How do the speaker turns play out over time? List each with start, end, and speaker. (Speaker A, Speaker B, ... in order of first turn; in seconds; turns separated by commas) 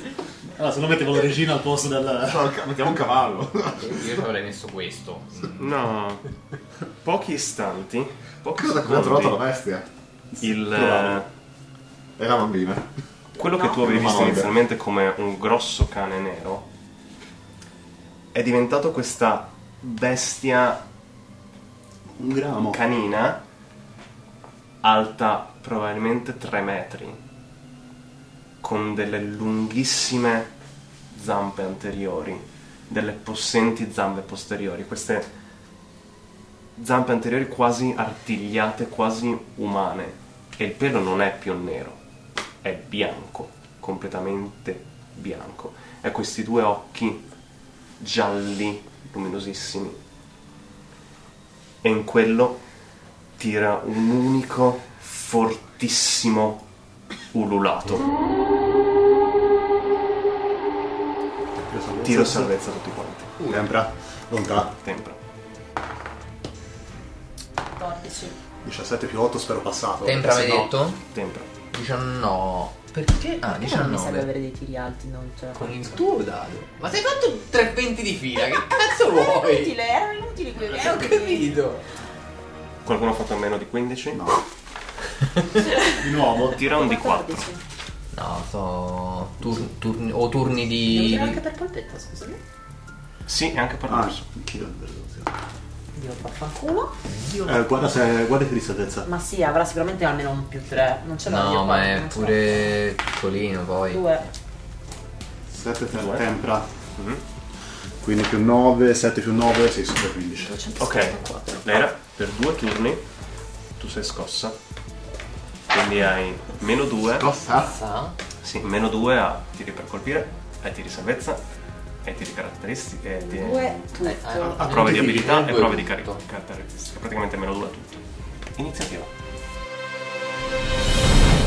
Speaker A: 0.6-2.4, Speaker B: 2.2-4.1, Speaker C: 3.8-5.8, Speaker D: 5.6-6.2, Speaker D: 7.0-9.4, Speaker B: 8.5-9.8, Speaker A: 10.3-11.2, Speaker D: 10.4-11.3, Speaker B: 12.2-12.9, Speaker D: 13.3-16.7, Speaker E: 13.4-14.2, Speaker B: 13.8-14.5, Speaker D: 18.3-20.8, Speaker A: 22.2-22.8, Speaker D: 22.7-23.4, Speaker D: 24.8-27.2, Speaker D: 28.6-30.5, Speaker D: 31.1-35.3, Speaker D: 36.8-42.0, Speaker D: 42.6-47.2, Speaker D: 48.0-50.0, Speaker D: 51.8-52.6, Speaker D: 53.4-56.6, Speaker D: 57.3-58.1, Speaker A: 61.6-62.5, Speaker D: 62.0-63.4, Speaker A: 63.4-64.7, Speaker D: 64.8-65.2, Speaker E: 67.7-68.4, Speaker A: 68.6-70.8, Speaker C: 70.0-71.0, Speaker D: 71.1-71.5, Speaker C: 71.7-74.3, Speaker E: 73.5-76.1, Speaker C: 75.5-79.7, Speaker E: 78.5-81.6, Speaker C: 80.7-81.8, Speaker D: 82.8-84.2, Speaker A: 84.1-84.4, Speaker E: 85.7-85.9, Speaker A: 86.0-86.6, Speaker D: 86.4-87.5, Speaker E: 86.7-87.6, Speaker C: 88.1-91.4, Speaker E: 90.8-92.4, Speaker D: 93.2-94.2, Speaker A: 93.9-95.3, Speaker E: 95.9-96.9, Speaker C: 97.1-97.4, Speaker A: 97.4-99.1, Speaker E: 99.1-102.7, Speaker C: 101.2-104.0, Speaker E: 103.9-104.2, Speaker A: 105.5-106.7, Speaker D: 105.9-106.2, Speaker D: 106.9-107.2, Speaker A: 108.0-110.6, Speaker E: 110.4-111.9, Speaker D: 110.8-113.0, Speaker D: 113.8-114.5, Speaker D: 115.7-117.3, Speaker B: 117.1-117.7, Speaker C: 117.5-118.2, Speaker D: 118.4-121.4, Speaker D: 122.0-128.0, Speaker E: 123.2-124.7, Speaker C: 124.0-126.2, Speaker A: 124.4-125.6, Speaker D: 128.6-129.1